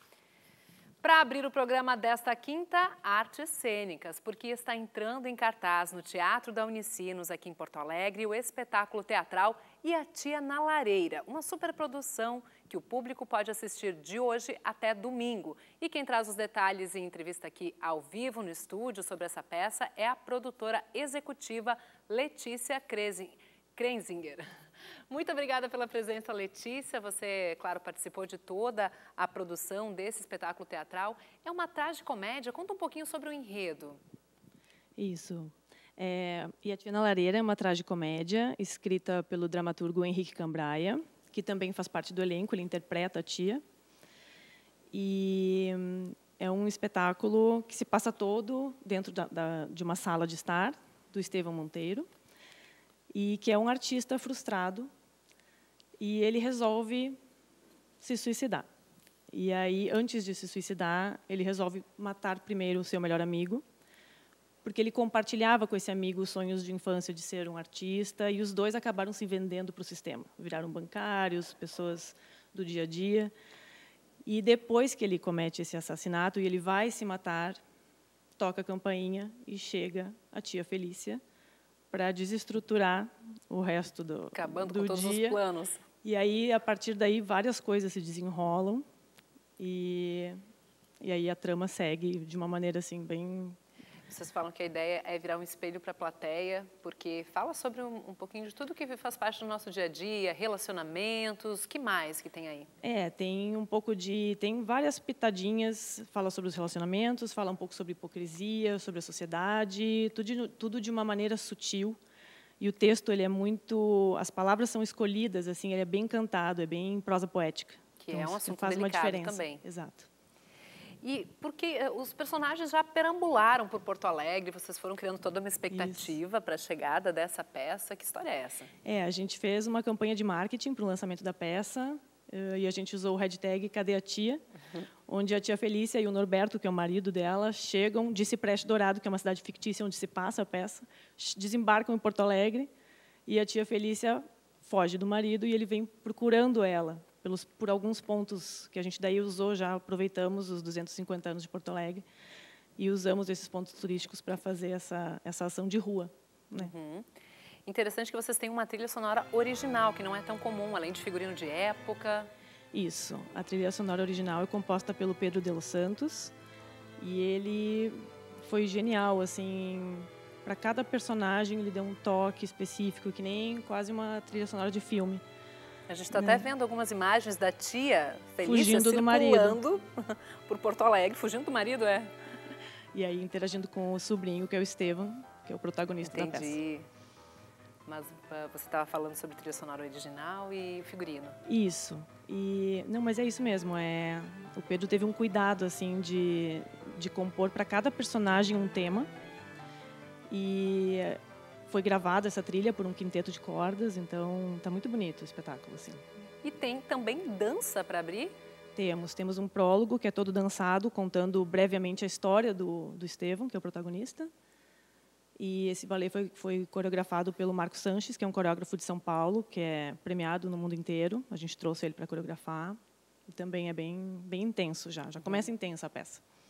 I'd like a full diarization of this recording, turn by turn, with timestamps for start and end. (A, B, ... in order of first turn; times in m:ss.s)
0:01.0-0:24.5 A
0:25.1-0:34.0 A
0:35.0-0:43.6 B
0:44.9-0:52.1 B
0:53.1-0:54.9 B
0:56.0-0:57.2 B
0:58.0-0:58.7 B
0:59.3-1:03.6 B
1:04.6-1:13.3 B
1:14.2-1:17.6 B
1:18.4-1:21.2 B
1:21.9-1:25.4 B
1:24.3-1:25.8 A
1:26.0-1:28.8 B
1:29.6-1:30.4 B
1:31.0-1:33.6 B
1:34.1-1:42.7 A
1:42.8-1:52.0 B
1:52.6-2:00.1 B
1:58.0-1:59.6 A
2:01.0-2:08.7 A
2:05.7-2:06.1 B
2:08.8-2:14.4 B
2:15.1-2:22.7 B
2:23.3-2:32.0 B
2:32.8-2:36.7 B
2:36.6-2:42.3 A
2:42.7-2:46.3 B
2:47.0-2:55.2 B
2:55.9-3:02.1 A
2:56.1-2:56.5 B
2:58.4-2:59.6 B
3:02.9-3:06.6 B
3:06.0-3:06.9 A
3:07.9-3:11.4 A
3:11.5-3:19.1 B
3:20.3-3:26.0 B
3:26.4-3:28.4 A
3:28.8-3:34.3 B
3:35.4-3:46.2 B